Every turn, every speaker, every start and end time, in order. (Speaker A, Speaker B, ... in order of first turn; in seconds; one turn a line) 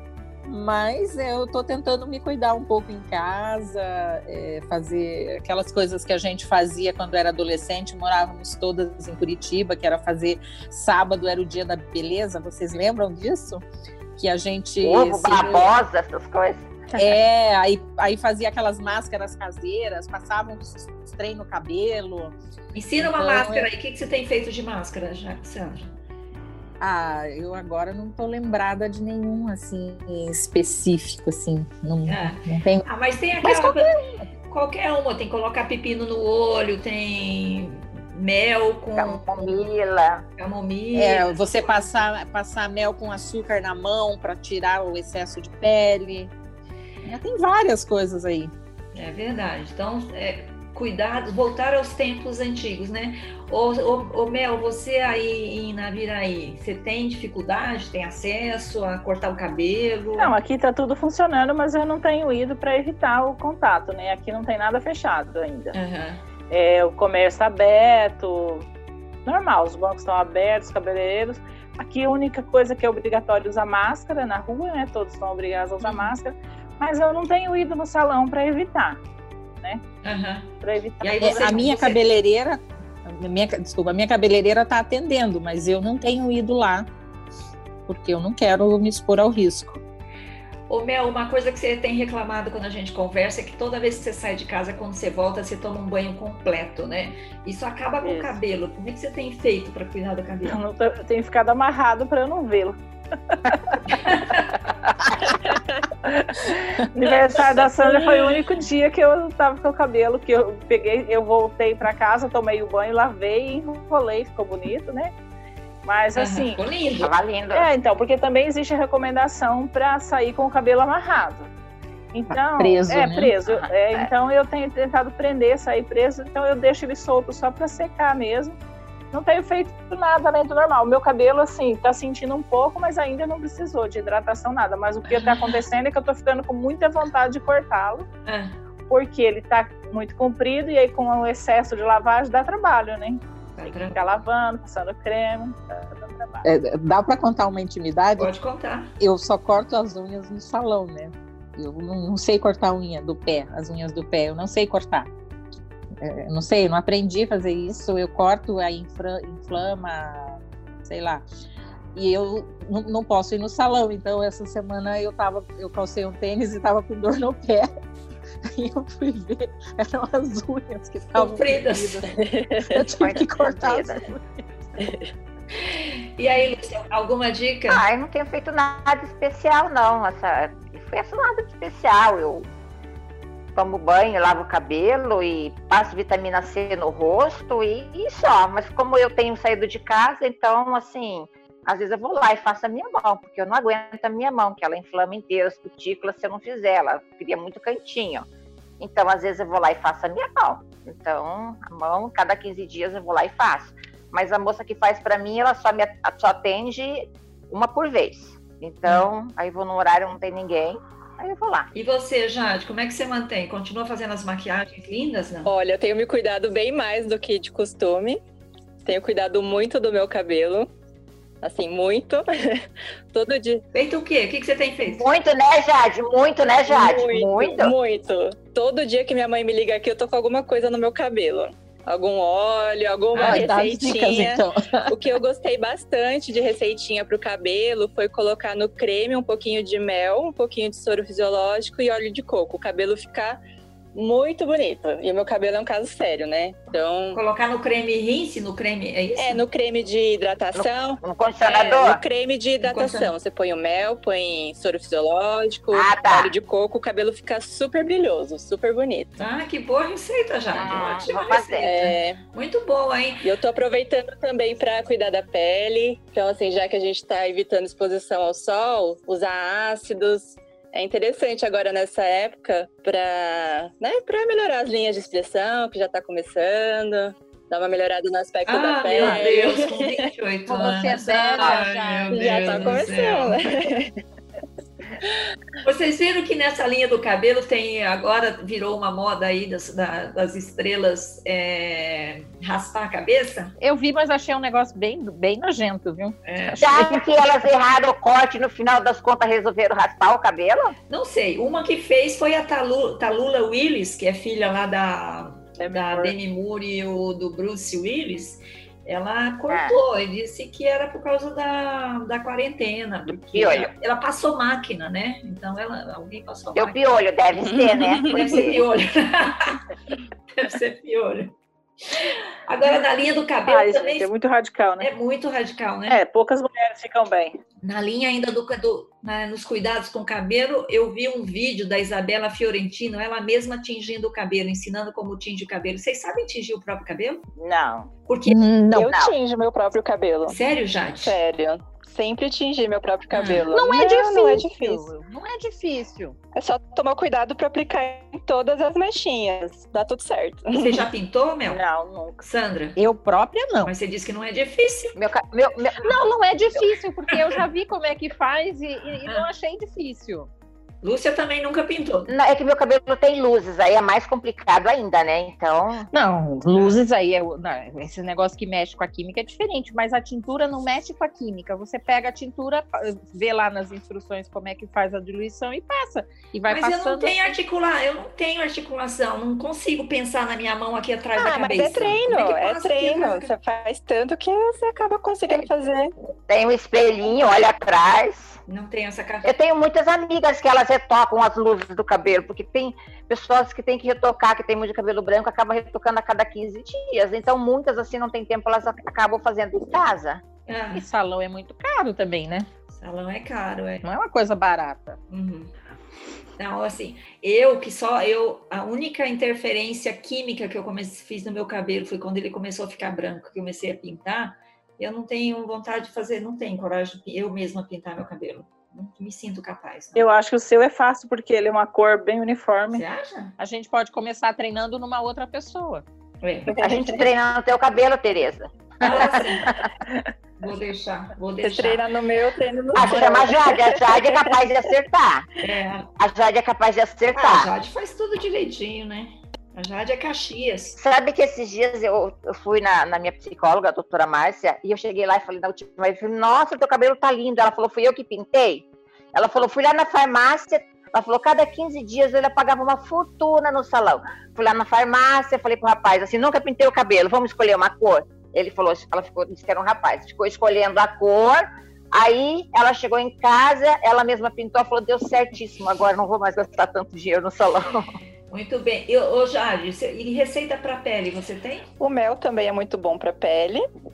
Speaker A: 0.4-13.6
Speaker A: 14.2-15.8
Speaker B: 14.8-16.9
Speaker A: 16.9-22.3
Speaker C: 22.7-25.9
Speaker A: 23.0-23.7
Speaker A: 26.8-32.8
Speaker C: 32.1-33.9
Speaker A: 33.4-34.2
Speaker C: 34.5-39.6
Speaker B: 39.0-40.2
Speaker C: 40.4-41.9
Speaker A: 40.9-46.3
Speaker A: 47.0-48.5
Speaker C: 48.9-60.4
Speaker D: 60.2-65.8
Speaker C: 65.7-66.2
Speaker D: 66.5-68.7
Speaker D: 69.2-79.0
Speaker C: 75.8-76.1
Speaker C: 80.0-82.0
Speaker D: 80.6-81.8
Speaker A: 81.2-86.9
Speaker A: 87.9-89.8
Speaker C: 90.7-100.6
Speaker D: 100.4-102.8
Speaker D: 103.3-104.1
Speaker C: 103.8-104.6
Speaker D: 105.0-105.3
Speaker D: 106.2-115.1
Speaker D: 115.8-116.6
Speaker C: 116.1-117.1
Speaker B: 117.0-117.7
Speaker D: 117.5-121.5
Speaker D: 122.1-128.6
Speaker A: 122.3-123.3
Speaker B: 123.4-124.1
Speaker D: 129.1-138.1
Speaker C: 135.1-135.5
Speaker C: 138.2-138.5
Speaker D: 138.9-146.4
Speaker C: 143.6-144.0
Speaker A: 146.4-148.3
Speaker C: 148.2-148.9
Speaker A: 149.0-155.1
Speaker A: 156.0-161.2
Speaker A: 161.9-167.7
Speaker A: 168.4-174.4
Speaker C: 171.2-172.1
Speaker E: 172.1-172.8
Speaker B: 172.6-174.1
Speaker E: 174.8-175.1
Speaker C: 175.5-177.8
Speaker B: 177.7-182.5
Speaker B: 183.5-198.2
Speaker B: 198.8-211.7
Speaker C: 211.7-215.5
Speaker E: 215.4-218.2
Speaker E: 218.8-220.7
Speaker E: 221.4-223.6
Speaker C: 223.7-225.1
Speaker B: 224.9-227.7
Speaker E: 226.7-243.4
Speaker C: 233.1-233.4
Speaker A: 233.1-234.9
Speaker E: 243.9-247.2
Speaker C: 247.1-249.4
Speaker E: 249.2-259.1
Speaker B: 250.5-252.0
Speaker C: 252.6-253.1
Speaker B: 255.7-256.4
Speaker C: 259.2-263.2
Speaker B: 260.5-261.7
Speaker E: 261.6-262.2
Speaker E: 263.2-280.1
Speaker C: 278.5-283.4
Speaker A: 278.9-279.4
Speaker A: 280.5-282.7
Speaker E: 282.1-284.0
Speaker C: 285.6-293.5
Speaker A: 293.6-297.0
Speaker C: 296.2-296.8
Speaker B: 296.6-300.8
Speaker C: 300.9-317.0
Speaker D: 305.6-306.1
Speaker B: 309.5-309.8
Speaker B: 313.3-313.7
Speaker B: 316.6-318.6
Speaker E: 317.4-318.4
Speaker C: 318.0-319.6
Speaker C: 320.3-321.4
Speaker C: 321.9-324.1
Speaker D: 323.4-324.9
Speaker C: 324.8-326.0
Speaker D: 325.9-327.4
Speaker C: 327.6-337.2
Speaker D: 337.4-337.9
Speaker C: 338.1-338.5
Speaker A: 338.3-338.9
Speaker E: 338.7-340.4
Speaker B: 338.9-339.1
Speaker C: 340.3-341.2
Speaker E: 341.0-344.9
Speaker C: 343.1-343.4
Speaker A: 343.5-346.2
Speaker E: 346.4-350.9
Speaker C: 350.5-351.6
Speaker D: 351.5-352.2
Speaker C: 352.2-352.8
Speaker A: 352.8-353.7
Speaker C: 353.6-354.9
Speaker B: 354.9-355.9
Speaker A: 355.8-360.3
Speaker C: 357.1-357.4
Speaker C: 360.8-362.1
Speaker B: 362.1-365.9
Speaker A: 365.9-377.4
Speaker C: 366.5-366.8
Speaker C: 376.5-383.3
Speaker E: 381.2-385.9
Speaker B: 386.3-388.4
Speaker C: 388.5-389.3
Speaker B: 389.2-400.2
Speaker C: 400.5-400.8
Speaker A: 400.7-402.5
Speaker C: 402.7-403.9
Speaker A: 403.8-405.0
Speaker C: 405.1-405.5
Speaker C: 406.4-420.1
Speaker D: 419.9-422.9
Speaker C: 422.7-423.4
Speaker A: 423.4-425.9
Speaker C: 426.2-426.6
Speaker E: 426.5-427.1
Speaker B: 426.6-429.7
Speaker C: 428.8-429.6
Speaker C: 430.4-431.8
Speaker E: 431.4-434.4
Speaker B: 432.8-435.3
Speaker C: 435.4-435.9
Speaker B: 436.0-437.5
Speaker C: 437.1-440.8
Speaker B: 440.8-467.9
Speaker C: 468.3-471.7
Speaker E: 471.8-473.6